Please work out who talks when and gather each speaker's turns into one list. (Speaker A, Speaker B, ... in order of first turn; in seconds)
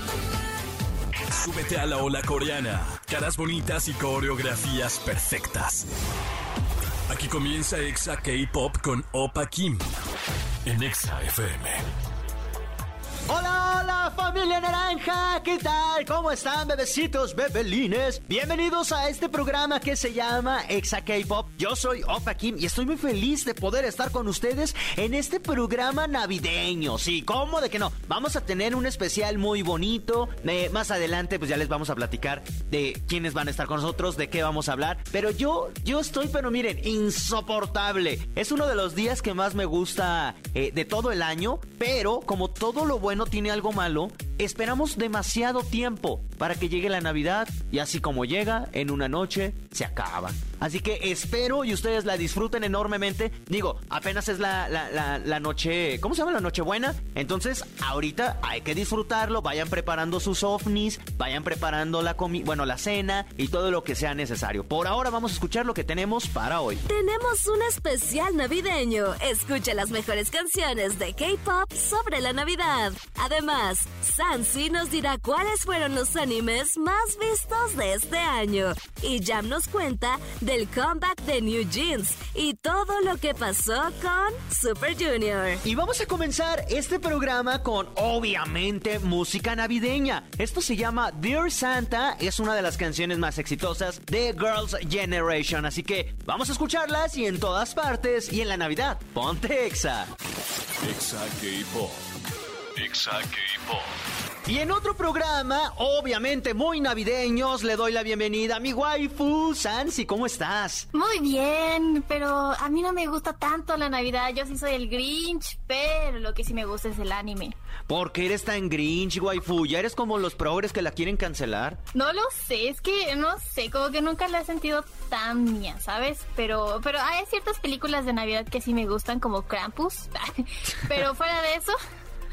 Speaker A: 1.3-5.9, 7.1-9.8, 10.7-11.9, 100.8-102.0, 102.8-103.9
Speaker B: 13.3-66.8, 85.6-100.1, 104.5-110.9, 117.9-121.8
Speaker C: 66.9-85.6
Speaker D: 110.9-117.5, 121.9-131.8